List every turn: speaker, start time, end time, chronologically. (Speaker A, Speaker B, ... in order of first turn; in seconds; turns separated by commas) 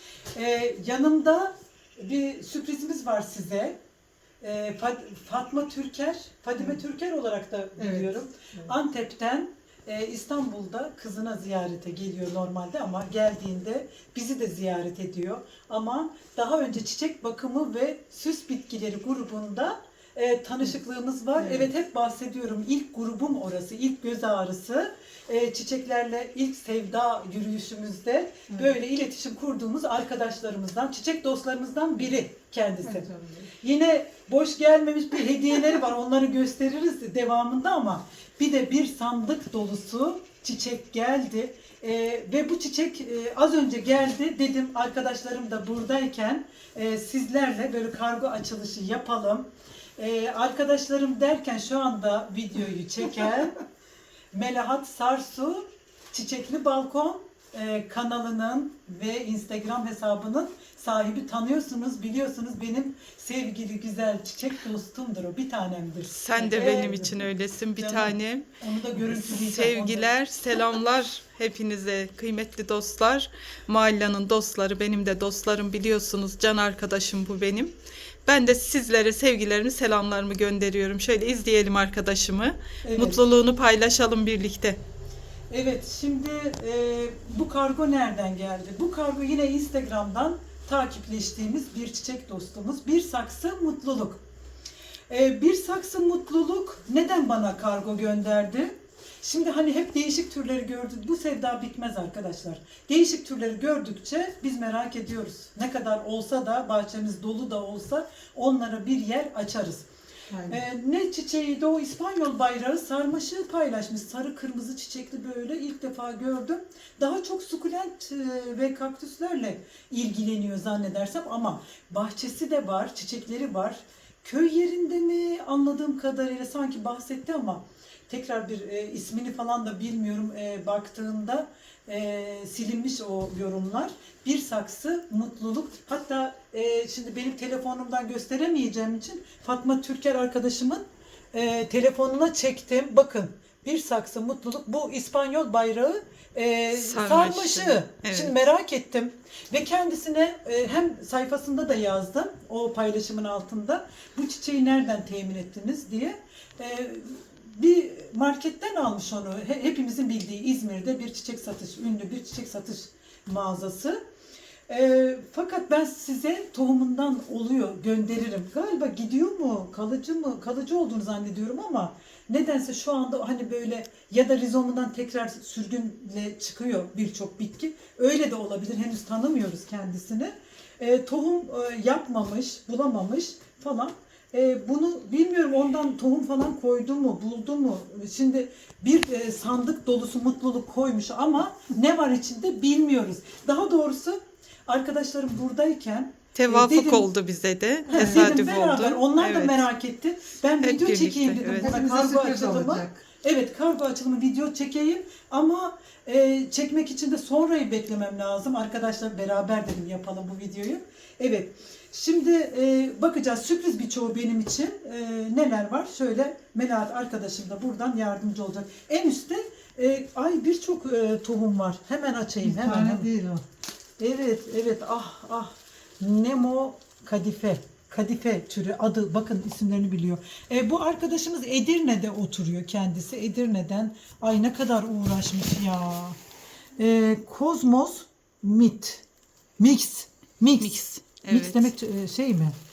Speaker A: 0.3-3.8, Speaker A: 4.4-33.1, Speaker B: 7.8-8.7, Speaker B: 21.4-21.7, Speaker B: 28.5-28.8, Speaker B: 32.8-33.5, Speaker A: 33.6-53.6, Speaker A: 54.3-70.1, Speaker C: 66.1-84.8, Speaker A: 82.8-83.2, Speaker A: 85.5-94.2, Speaker A: 95.1-109.8, Speaker B: 110.3-110.6, Speaker A: 110.5-164.0, Speaker C: 146.7-148.4, Speaker A: 164.7-197.1, Speaker C: 196.3-199.7, Speaker B: 197.9-198.3, Speaker A: 197.9-223.1, Speaker C: 200.6-201.8, Speaker B: 201.5-203.0, Speaker B: 222.4-223.4, Speaker A: 224.0-236.2, Speaker A: 236.8-239.0, Speaker A: 239.6-242.6, Speaker C: 240.6-241.7